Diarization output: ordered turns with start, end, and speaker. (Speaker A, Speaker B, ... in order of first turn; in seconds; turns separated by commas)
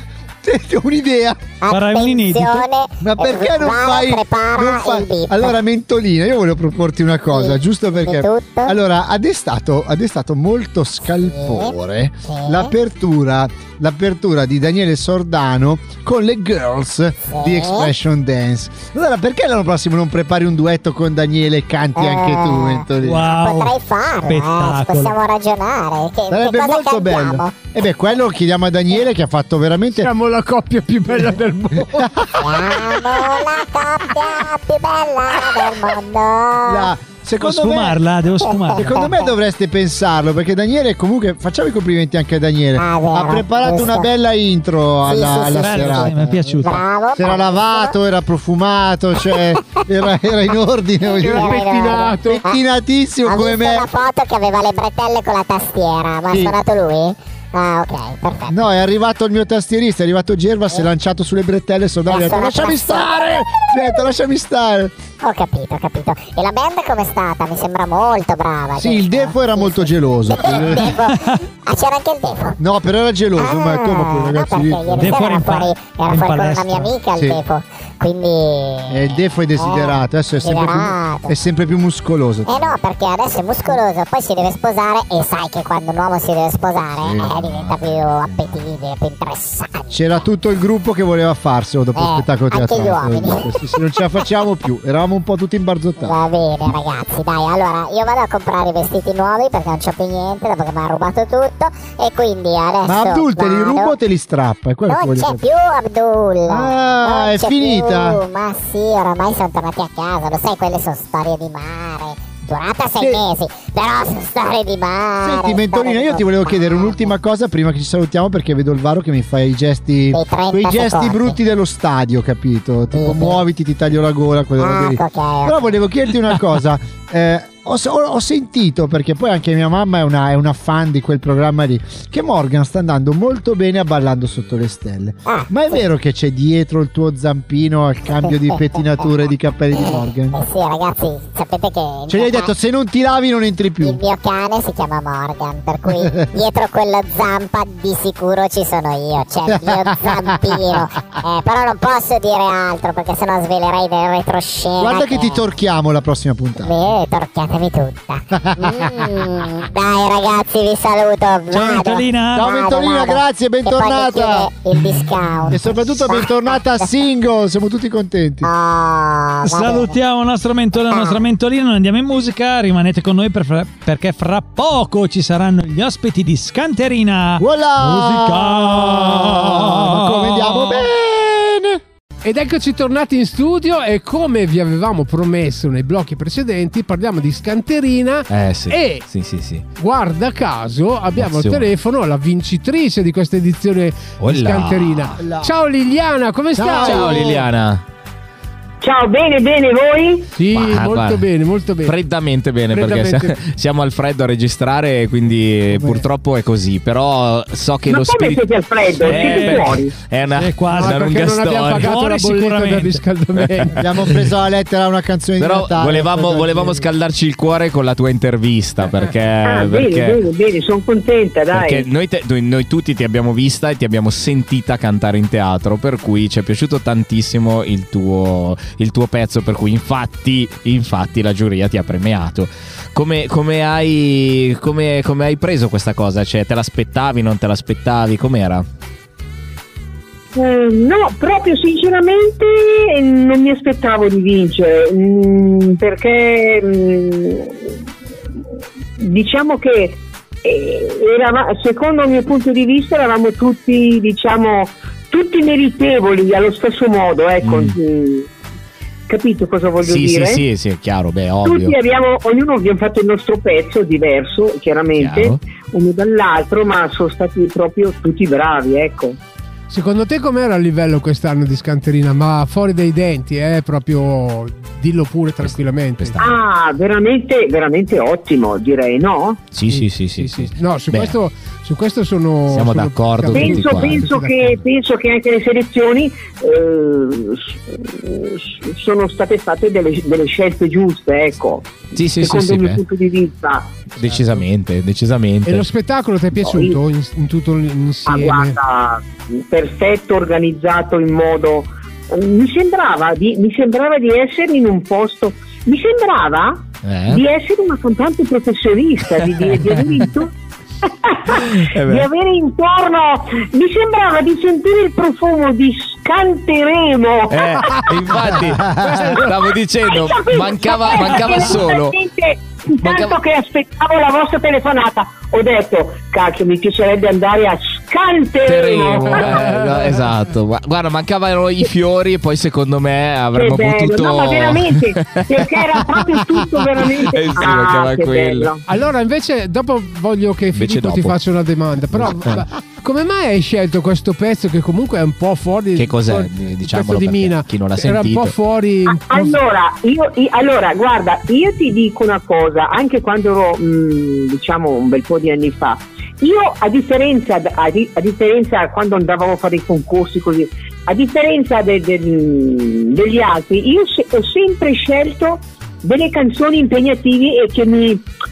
Speaker A: 0.4-1.4, Speaker B: 1.6-5.6, Speaker C: 1.7-2.6, Speaker A: 3.0-23.2, Speaker B: 7.3-8.7, Speaker B: 11.2-11.7, Speaker B: 12.2-12.7, Speaker B: 17.3-17.9, Speaker B: 21.9-27.6, Speaker C: 23.0-25.1, Speaker A: 26.3-30.1, Speaker D: 29.9-32.3, Speaker A: 31.9-32.4, Speaker B: 32.4-36.9, Speaker A: 36.6-38.0, Speaker C: 37.4-38.9, Speaker B: 38.4-39.3, Speaker A: 38.7-51.6, Speaker B: 42.8-44.1, Speaker B: 45.0-46.0, Speaker C: 45.4-46.8, Speaker B: 46.6-47.9, Speaker D: 51.2-52.4, Speaker B: 51.2-52.6, Speaker A: 52.3-53.9, Speaker B: 53.2-58.6, Speaker A: 56.3-56.5, Speaker A: 58.5-64.9, Speaker B: 62.1-63.1, Speaker B: 65.2-72.6, Speaker A: 68.8-70.9, Speaker C: 71.1-71.4, Speaker A: 72.6-75.2, Speaker B: 73.4-81.3, Speaker C: 75.0-76.9, Speaker A: 77.2-77.4, Speaker A: 78.9-82.8, Speaker B: 82.5-90.2, Speaker A: 87.0-88.6, Speaker A: 89.9-96.2, Speaker B: 92.0-93.5, Speaker B: 96.0-103.9, Speaker A: 102.8-105.4, Speaker B: 104.9-117.2, Speaker A: 106.5-108.2, Speaker A: 115.2-140.4, Speaker B: 120.1-121.3, Speaker B: 122.9-123.4, Speaker B: 124.6-125.8, Speaker B: 135.2-135.8, Speaker B: 138.2-139.1, Speaker B: 139.7-142.5, Speaker A: 142.1-144.0, Speaker B: 143.8-155.4, Speaker A: 149.5-150.7, Speaker A: 154.8-156.9, Speaker B: 156.6-166.9, Speaker A: 158.3-159.3, Speaker C: 161.5-162.4, Speaker A: 162.3-164.5, Speaker A: 165.5-168.5, Speaker B: 168.4-170.0, Speaker C: 169.4-180.9, Speaker B: 170.9-171.2, Speaker A: 177.4-181.8, Speaker D: 182.2-189.0, Speaker E: 188.3-189.6, Speaker D: 189.8-197.4, Speaker E: 191.1-191.7, Speaker E: 194.2-195.2, Speaker A: 195.2-195.5, Speaker A: 196.5-197.4, Speaker E: 196.8-197.8, Speaker F: 198.8-200.3, Speaker D: 200.3-202.0, Speaker E: 200.5-201.3, Speaker E: 201.8-212.1, Speaker D: 202.7-203.4, Speaker A: 205.7-206.0, Speaker F: 207.8-209.9, Speaker C: 209.0-209.8, Speaker C: 210.4-211.1, Speaker D: 210.7-213.9, Speaker C: 211.7-213.0, Speaker E: 213.4-213.7, Speaker A: 213.7-216.8, Speaker E: 215.4-220.2, Speaker F: 219.4-221.9, Speaker E: 221.5-238.7, Speaker F: 240.3-247.7, Speaker F: 249.0-258.3, Speaker E: 257.4-257.8, Speaker F: 259.1-260.4, Speaker E: 259.8-261.8, Speaker F: 261.4-269.2, Speaker E: 265.0-265.4, Speaker D: 269.7-276.2, Speaker E: 275.4-276.4, Speaker F: 276.2-279.4, Speaker E: 279.5-281.2, Speaker D: 279.7-284.6, Speaker E: 282.5-284.1, Speaker F: 283.3-293.8, Speaker E: 291.9-292.8, Speaker E: 293.9-295.7, Speaker D: 294.0-294.4, Speaker D: 295.4-298.6, Speaker F: 296.4-296.8, Speaker F: 298.1-310.3, Speaker E: 306.8-307.2, Speaker E: 309.1-310.1, Speaker F: 310.8-317.8, Speaker E: 311.3-312.1, Speaker E: 317.3-322.0, Speaker A: 318.6-319.2, Speaker F: 319.8-329.4, Speaker E: 322.8-323.2, Speaker E: 328.4-335.9, Speaker D: 329.2-330.1, Speaker F: 333.3-338.6, Speaker E: 336.8-338.5, Speaker D: 338.6-349.4, Speaker E: 340.5-341.2, Speaker E: 341.9-342.4, Speaker E: 345.7-348.4, Speaker F: 348.9-368.1